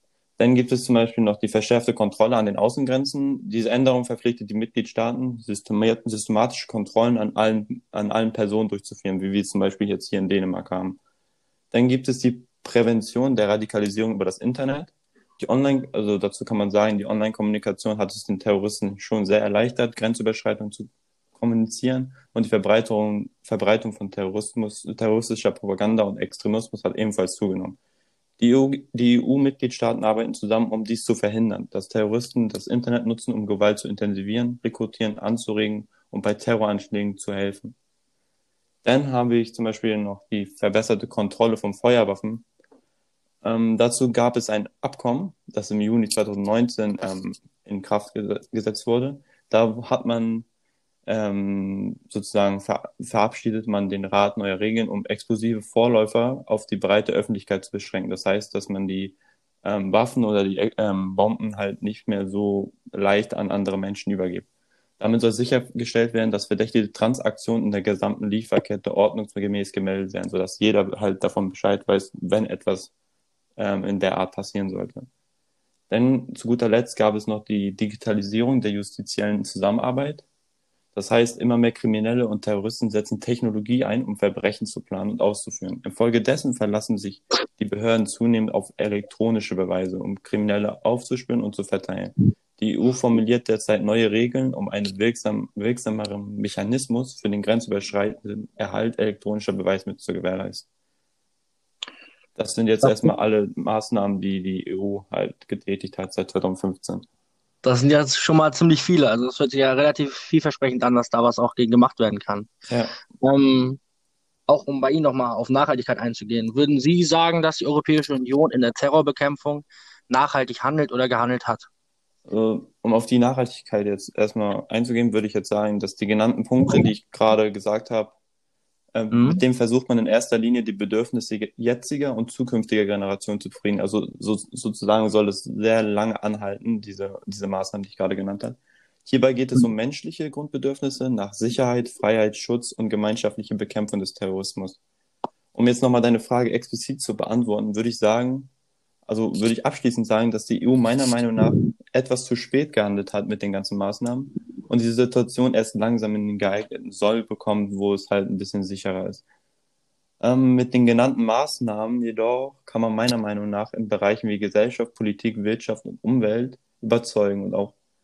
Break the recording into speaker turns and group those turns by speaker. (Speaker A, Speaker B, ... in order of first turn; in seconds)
Speaker A: 0.4-11.0, 11.7-27.8, 28.4-37.8, 38.8-42.5, 43.4-50.5, 51.1-64.5, 65.0-72.9, 73.6-75.1, 75.9-80.3, 81.0-100.7, 102.4-107.0, 112.7-112.9, 122.3-128.2, 128.9-144.8, 145.5-148.5, 149.1-159.2, 160.2-167.8
Speaker B: 107.6-112.5, 113.2-113.8, 114.5-121.7, 129.1-129.4